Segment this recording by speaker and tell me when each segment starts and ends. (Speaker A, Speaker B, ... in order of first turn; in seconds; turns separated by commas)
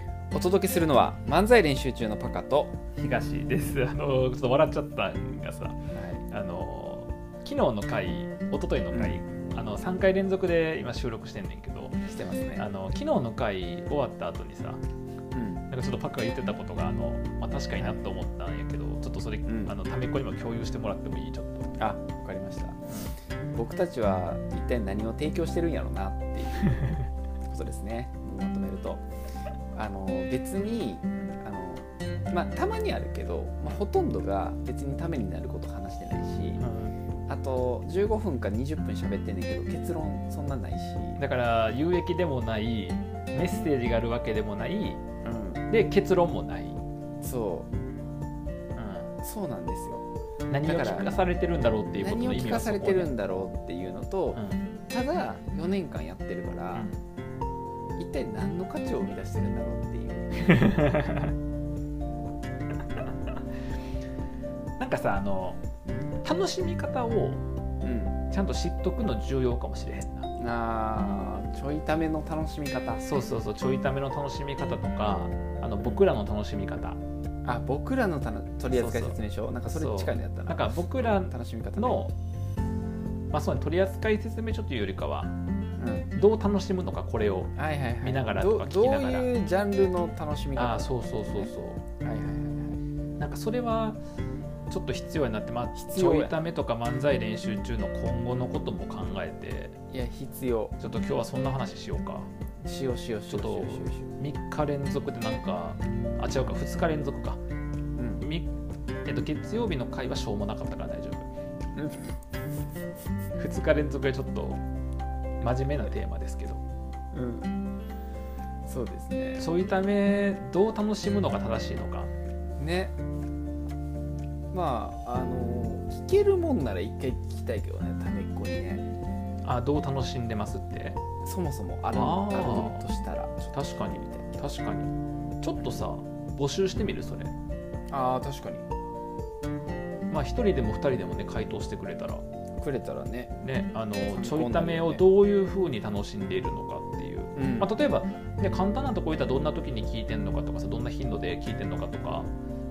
Speaker A: 0.3-2.7, Speaker B: 3.0-5.8, Speaker A: 5.9-6.2, Speaker B: 6.3-12.0, Speaker A: 8.9-9.2, Speaker A: 12.1-12.7, Speaker B: 12.6-14.8, Speaker A: 15.3-15.7, Speaker B: 15.7-21.7, Speaker A: 17.8-18.0, Speaker A: 19.4-19.7, Speaker A: 21.8-22.9, Speaker A: 23.5-26.6, Speaker B: 26.7-27.1, Speaker A: 27.5-29.0, Speaker A: 29.7-36.6, Speaker B: 36.6-36.9, Speaker A: 37.3-41.2, Speaker B: 41.2-45.0, Speaker A: 45.2-45.7, Speaker B: 45.7-46.8, Speaker A: 47.2-47.7, Speaker B: 48.8-49.1, Speaker A: 49.2-50.0, Speaker B: 50.5-53.1, Speaker A: 50.6-51.2, Speaker A: 52.0-56.9, Speaker B: 54.3-54.6, Speaker A: 58.0-60.6, Speaker B: 60.5-61.3, Speaker B: 64.8-65.6, Speaker B: 66.2-67.4, Speaker A: 67.8-68.2, Speaker B: 68.3-70.3, Speaker A: 70.4-73.0, Speaker B: 73.0-77.0, Speaker A: 77.4-82.0, Speaker B: 78.7-79.2, Speaker B: 79.7-82.1, Speaker B: 83.3-85.3, Speaker A: 85.8-86.1, Speaker B: 86.1-89.3, Speaker A: 87.5-92.8, Speaker B: 90.5-91.8, Speaker B: 93.2-94.0, Speaker B: 94.7-99.8, Speaker A: 95.8-96.4, Speaker A: 99.9-100.7, Speaker B: 100.8-102.3, Speaker A: 102.6-104.1, Speaker B: 103.3-107.4, Speaker A: 108.0-108.2, Speaker B: 108.2-108.5, Speaker B: 109.0-111.3, Speaker A: 111.7-112.1, Speaker B: 113.4-114.6, Speaker B: 115.4-116.6, Speaker A: 117.1-117.5, Speaker A: 118.7-119.5, Speaker B: 119.4-122.1, Speaker A: 122.6-122.9, Speaker A: 124.5-128.8, Speaker B: 129.4-131.0, Speaker A: 131.2-134.4, Speaker B: 131.9-132.8, Speaker B: 133.5-137.3, Speaker A: 135.6-135.8, Speaker A: 137.9-138.7, Speaker B: 140.1-142.2, Speaker A: 142.6-143.3, Speaker B: 143.4-152.3, Speaker A: 144.1-145.0, Speaker A: 147.3-147.7